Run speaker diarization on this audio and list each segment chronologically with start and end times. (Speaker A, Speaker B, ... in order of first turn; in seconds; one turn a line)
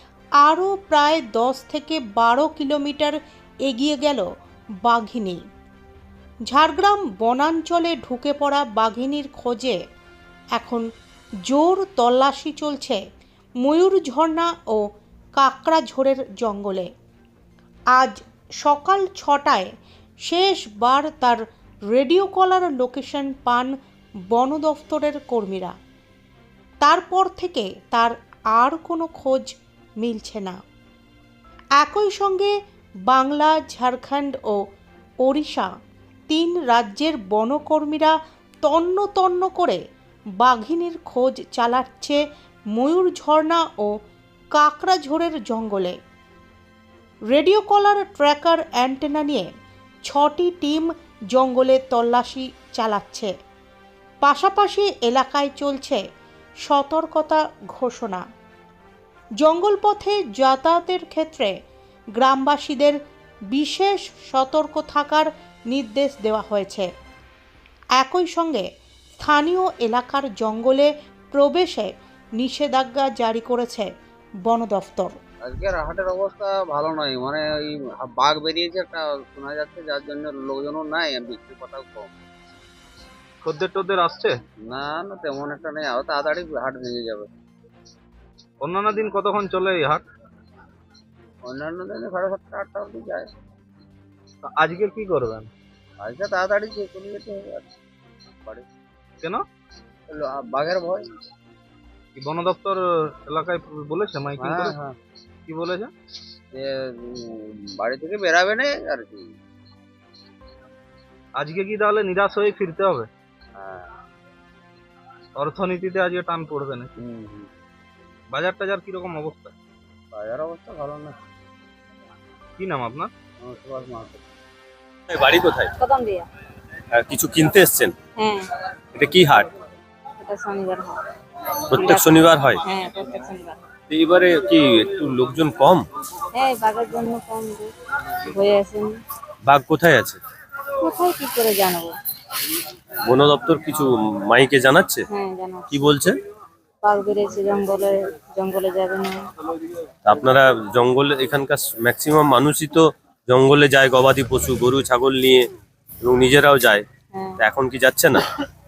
Speaker A: 0.4-4.2
Speaker A: 4.8-5.4
Speaker A: 6.5-9.8
Speaker A: 10.6-10.8
Speaker A: 11.5-13.0
Speaker A: 13.6-14.8
Speaker A: 15.4-16.9
Speaker A: 17.9-19.7
Speaker A: 20.3-23.7
Speaker A: 24.3-25.7
Speaker A: 26.8-30.6
Speaker A: 31.8-32.5
Speaker A: 33.1-34.6
Speaker A: 35.2-35.7
Speaker A: 36.3-39.8
Speaker A: 40.4-42.2
Speaker A: 42.7-43.9
Speaker A: 44.5-46.0
Speaker A: 47.3-49.5
Speaker A: 50.1-53.3
Speaker A: 54.2-56.0
Speaker A: 56.6-58.2
Speaker A: 59.4-61.5
Speaker A: 62.2-63.0
Speaker A: 63.5-66.9
Speaker A: 68.0-68.7
Speaker A: 69.2-73.9
Speaker A: 74.5-75.1
Speaker B: 75.4-82.1
Speaker C: 83.4-84.4
Speaker B: 84.6-87.3
Speaker C: 88.6-90.0
Speaker B: 91.4-93.3
Speaker C: 94.4-95.5
Speaker B: 96.0-97.6
Speaker B: 100.1-101.0
Speaker C: 102.1-104.8
Speaker B: 104.4-105.0
Speaker C: 105.5-105.9
Speaker B: 106.5-109.3
Speaker C: 111.3-113.1
Speaker B: 113.5-113.9
Speaker C: 115.3-116.9
Speaker B: 117.0-117.5
Speaker C: 118.3-119.5
Speaker B: 120.1-121.2
Speaker C: 122.6-123.1
Speaker B: 123.4-124.2
Speaker D: 125.1-125.7
Speaker E: 125.8-126.3
Speaker D: 126.9-127.9
Speaker E: 128.2-128.5
Speaker D: 128.9-129.5
Speaker E: 130.2-131.0
Speaker D: 131.7-132.6
Speaker E: 131.7-133.6
Speaker D: 133.9-135.8
Speaker E: 136.3-137.7
Speaker E: 138.3-139.0
Speaker D: 139.4-140.2
Speaker E: 140.8-142.0
Speaker D: 143.1-145.0
Speaker E: 145.1-145.7
Speaker D: 145.7-146.2
Speaker E: 146.8-149.2
Speaker D: 150.1-155.4
Speaker D: 156.0-156.8
Speaker E: 157.1-157.4
Speaker D: 157.4-158.2